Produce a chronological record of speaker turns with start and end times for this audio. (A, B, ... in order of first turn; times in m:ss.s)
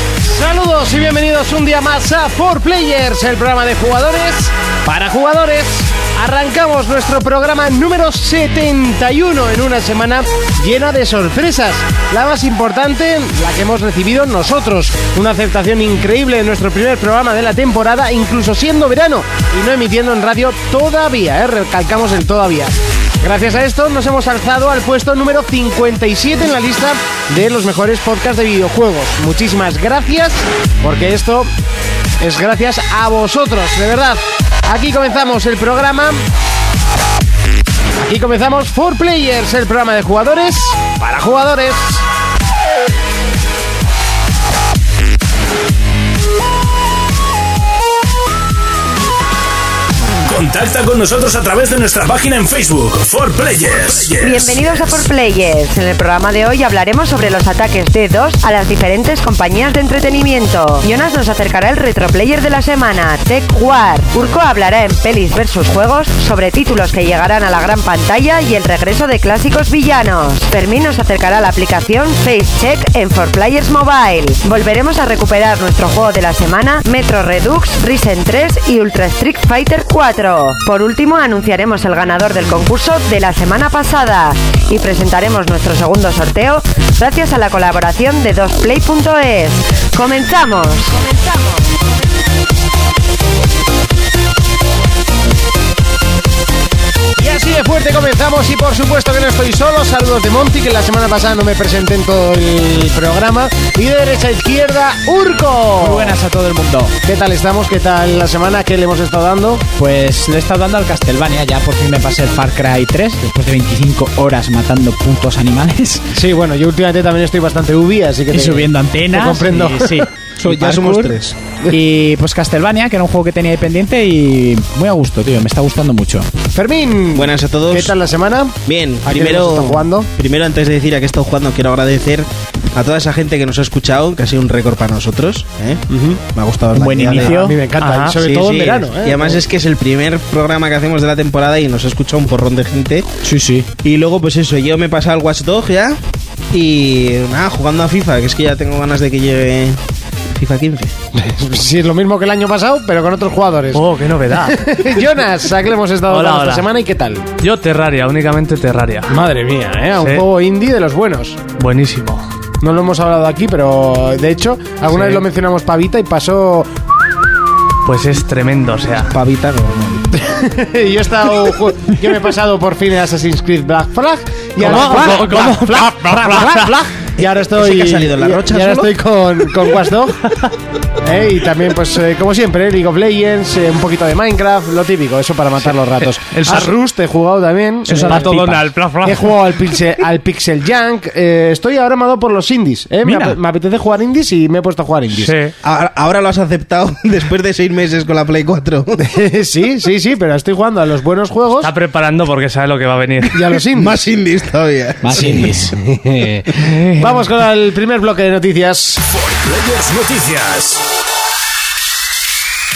0:00.2-0:31.5 A
0:32.2-0:36.2 A
0:38.0-0:42.0 A
0:50.2-0:54.6 B
0:54.2-1:31.2 C
1:37.2-1:46.1 A
1:45.8-1:47.0 D
1:47.0-1:49.6 A
1:49.8-1:56.1 D
1:56.1-2:00.1 A
1:58.3-2:01.2 D
2:00.4-2:01.4 E
2:01.7-2:06.3 D
2:06.5-2:10.1 A
2:07.1-2:07.9 E
2:08.6-2:17.5 E
2:15.9-2:16.2 A
2:16.7-2:17.6 D
2:17.0-2:19.4 A
2:17.8-2:18.2 F
2:18.2-2:23.1 E
2:23.2-2:23.7 D
2:23.8-2:26.0 E
2:26.5-2:29.8 E
2:30.3-2:30.9 E
2:31.1-2:37.3 A
2:33.7-2:34.7 F
2:36.1-2:36.7 F
2:37.4-2:39.1 F
2:39.1-2:41.4 A
2:41.6-2:42.3 F
2:42.6-2:46.7 A
2:44.9-2:45.2 F
2:47.8-2:49.1 F
2:49.1-2:50.3 E
2:50.3-3:00.3 A
2:54.6-2:56.8 F
2:54.6-2:55.4 D
2:57.2-2:58.9 E
3:01.0-3:15.4 A
3:06.3-3:06.7 F
3:07.9-3:08.7 D
3:07.9-3:09.3 F
3:13.0-3:13.4 D
3:15.2-3:15.5 F
3:15.6-3:19.0 E
3:19.0-3:21.7 A
3:21.6-3:23.5 F
3:23.3-3:24.0 A
3:23.7-3:25.5 E
3:25.0-3:25.7 D
3:25.7-3:29.0 A
3:26.6-3:27.2 F
3:29.0-3:30.8 B